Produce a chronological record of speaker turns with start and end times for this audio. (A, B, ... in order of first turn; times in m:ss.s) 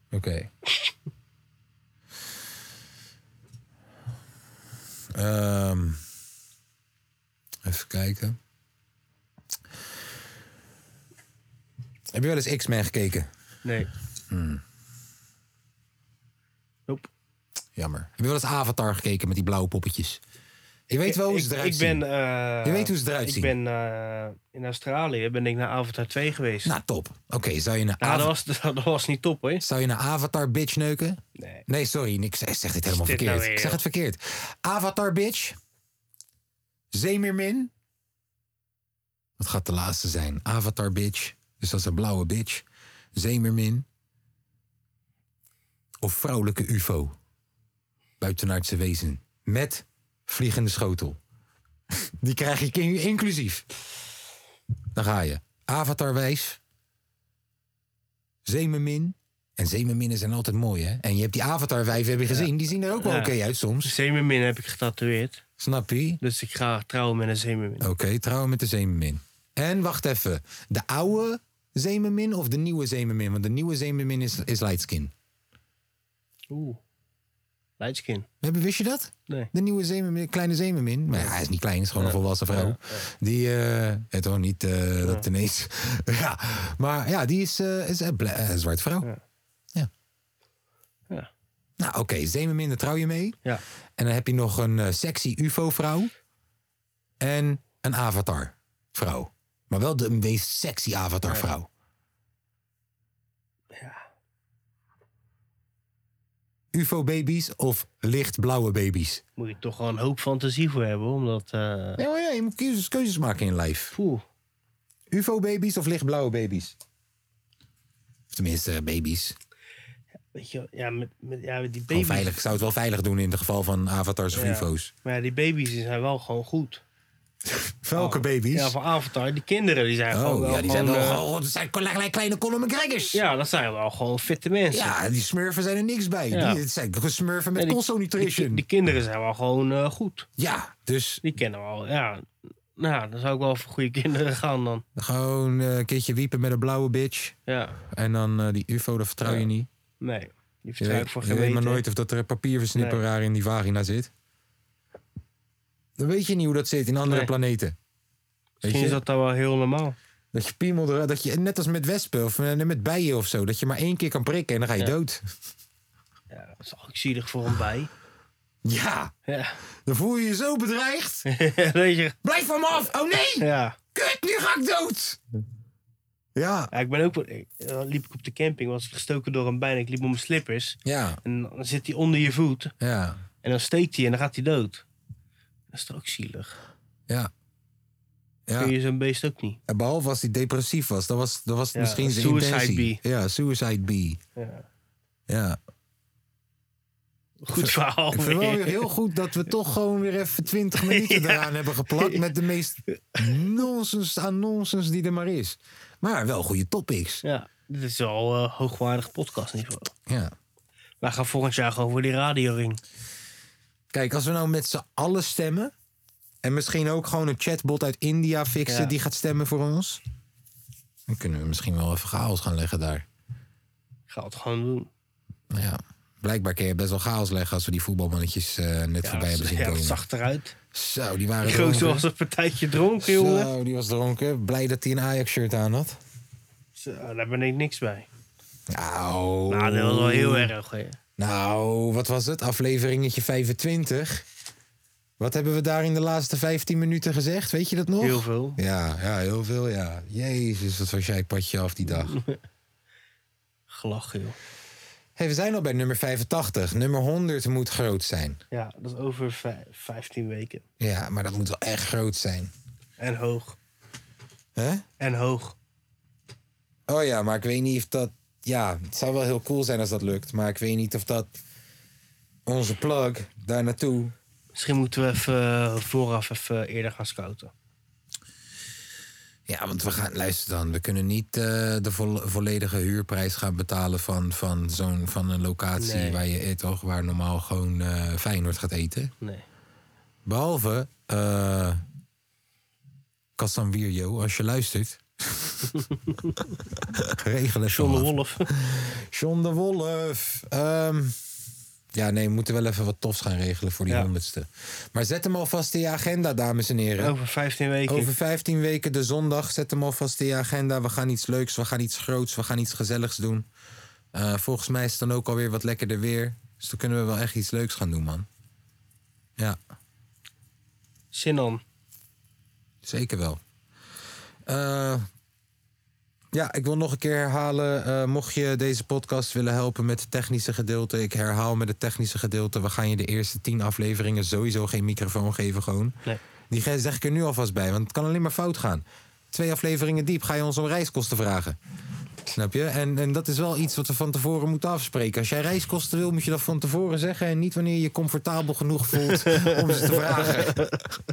0:00.1-0:00.5 A
0:05.1-0:06.0 A
0:07.6-0:08.4 A
0:12.1-0:13.3 A
0:13.6-0:13.9 B
0:14.3-0:14.6 A
0:17.8-0:20.2 A
0:20.9-0:22.0 A
0:21.0-0:26.7 B
0:22.6-0:23.5 A
0:26.6-0:28.3 A
0:28.0-0:29.6 B
0:29.6-0:35.6 A
0:31.4-0:31.6 B
0:32.9-0:33.8 B
0:36.9-0:37.7 A
0:39.4-0:43.8 A
0:46.0-0:47.1 A
0:48.2-0:51.2 A
0:52.0-0:53.7 A
0:54.9-0:56.6 A
0:58.4-1:03.9 A
1:02.3-1:03.3 B
1:03.8-1:05.4 B
1:05.6-1:06.2 A
1:06.2-1:07.9 B
1:07.8-1:15.1 A
1:16.5-1:16.8 B
1:17.8-1:18.3 B
1:18.4-1:29.1 A
1:22.0-1:23.1 B
1:31.8-1:33.4 A
1:34.0-1:36.1 A
1:37.2-1:41.7 A
1:43.7-1:44.0 B
1:46.7-1:49.2 A
1:49.4-1:52.0 B
1:52.0-1:53.9 A
1:53.9-1:54.2 B
1:55.1-1:56.7 A
1:58.3-1:59.4 A
2:00.3-2:02.3 B
2:01.9-2:04.9 A
2:04.3-2:06.8 B
2:07.4-2:08.8 A
2:07.9-2:11.2 B
2:10.1-2:13.2 A
2:13.1-2:14.9 B
2:14.7-2:18.6 A
2:16.3-2:16.6 B
2:17.6-2:20.3 B
2:20.4-2:21.2 A
2:21.2-2:24.8 B
2:25.0-2:27.4 A
2:27.5-2:27.8 B
2:27.9-2:29.7 A
2:30.0-2:31.8 B
2:30.8-2:34.1 A
2:32.7-2:33.0 B
2:36.0-2:37.8 A
2:37.1-2:37.3 B
2:38.6-2:39.0 A
2:38.6-2:40.0 B
2:40.3-2:45.3 A
2:46.3-2:47.9 B
2:48.6-2:49.1 A
2:49.3-2:49.6 B
2:49.8-2:51.2 A
2:51.3-2:52.2 B
2:52.2-2:55.2 A
2:53.4-2:53.8 B
2:56.3-2:56.7 A
2:56.7-3:02.7 B
3:00.8-3:01.2 A
3:02.8-3:03.2 A
3:03.4-3:04.8 B
3:05.7-3:06.6 B
3:08.5-3:08.7 A
3:08.6-3:09.6 B
3:09.7-3:14.2 A
3:11.7-3:13.0 B
3:14.4-3:14.6 B
3:15.3-3:15.6 A
3:17.4-3:18.9 B
3:17.5-3:27.2 A
3:20.8-3:22.2 B
3:22.9-3:23.2 B
3:27.2-3:29.9 B
3:30.1-3:30.3 A
3:31.0-3:32.8 B
3:33.9-3:35.7 A
3:36.4-3:40.0 A
3:38.7-3:38.9 B
3:41.1-3:43.0 A
3:44.1-3:44.9 B
3:45.5-3:50.0 A
3:49.0-3:50.6 B
3:50.7-3:52.1 A
3:51.4-3:53.5 B
3:53.0-3:56.0 A
3:56.8-3:58.1 B
3:58.7-4:00.5 A
3:59.5-4:01.0 B
4:01.2-4:04.2 A
4:05.2-4:12.2 A
4:08.0-4:08.6 B
4:11.9-4:12.4 B
4:13.7-4:14.4 B
4:15.2-4:18.4 A
4:18.5-4:20.6 B
4:20.8-4:22.5 A
4:23.0-4:23.6 B
4:24.6-4:24.8 A
4:25.0-4:25.6 B
4:26.9-4:31.4 A
4:32.4-4:34.1 A
4:34.5-4:37.5 B
4:39.5-4:49.1 A
4:45.8-4:46.2 B
4:50.2-4:51.8 A
4:53.4-4:55.8 A
4:55.8-4:56.4 B
4:56.9-5:01.2 A
4:57.7-4:58.5 B
5:01.9-5:07.1 A
5:07.0-5:08.1 B
5:07.9-5:13.4 A
5:14.1-5:18.3 A
5:21.1-5:21.6 B
5:22.8-5:23.4 A
5:24.5-5:25.1 A
5:26.3-5:35.9 A
5:36.5-5:41.6 A
5:42.3-5:50.8 A
5:49.1-5:50.8 B